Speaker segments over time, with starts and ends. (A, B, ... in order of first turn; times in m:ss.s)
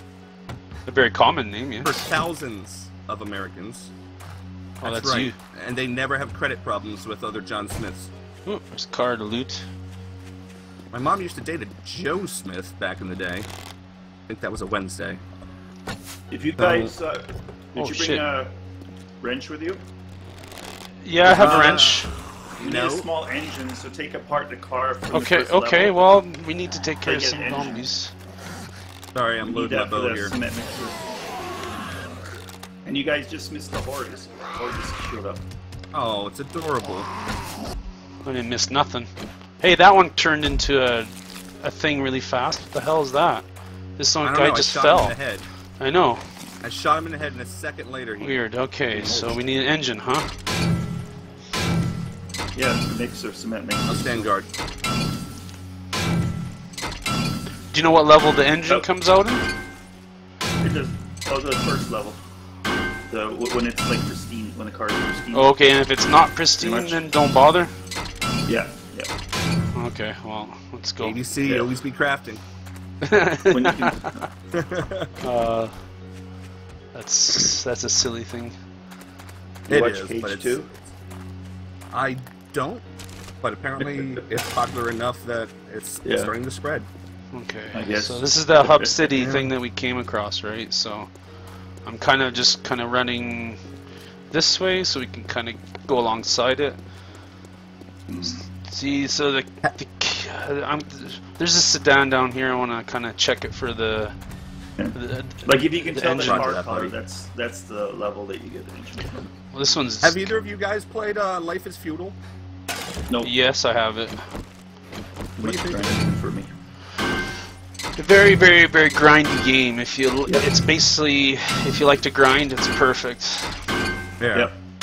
0:00.9-0:02.1 A
0:01.8-0:03.9 B
0:04.8-0:08.1 B
0:04.8-0:05.4 A
0:08.5-0:09.7 A
0:10.9-0:13.5 B
0:14.3-0:15.2 B
0:16.3-0:18.5 C
0:16.6-0:16.9 B
0:17.8-0:18.2 A
0:19.2-0:19.8 C
0:21.0-0:22.1 A
0:21.2-0:22.1 B
0:21.3-0:21.9 C
0:22.6-0:26.0 C
0:22.6-0:23.1 B
0:25.1-0:28.1 A
0:27.0-0:27.9 C
0:29.1-0:30.4 B
0:29.4-0:31.1 C
0:32.9-0:35.4 C
0:35.9-0:37.1 B
0:38.2-0:39.1 A
0:39.6-0:43.4 A
0:44.0-0:45.2 A
0:44.2-0:45.5 B
0:45.8-0:46.2 A
0:46.6-0:49.5 B
0:48.2-0:50.3 A
0:52.6-0:54.3 C
0:53.9-0:54.5 B
0:57.7-0:59.4 A
1:00.6-1:02.2 C
1:03.1-1:05.5 C
1:05.3-1:07.7 A
1:06.6-1:07.0 C
1:08.5-1:09.1 C
1:09.7-1:11.2 A
1:11.0-1:12.4 B
1:11.4-1:11.7 C
1:13.0-1:14.1 A
1:13.5-1:14.3 C
1:14.5-1:15.1 B
1:15.2-1:15.8 A
1:16.9-1:18.6 A
1:19.7-1:20.7 C
1:19.7-1:20.6 B
1:21.9-1:22.9 B
1:23.4-1:26.9 B
1:23.8-1:24.2 C
1:26.0-1:26.3 C
1:27.3-1:31.1 A
1:27.7-1:29.2 C
1:29.2-1:29.5 B
1:31.8-1:33.6 A
1:34.3-1:36.8 A
1:38.1-1:38.4 C
1:38.5-1:44.2 A
1:44.8-1:49.3 C
1:44.9-1:46.6 A
1:46.2-1:46.9 B
1:49.5-1:50.3 A
1:50.0-1:52.2 B
1:53.2-1:54.3 A
1:55.4-1:56.0 B
1:55.4-1:56.5 C
1:58.0-2:03.7 A
2:04.2-2:04.5 B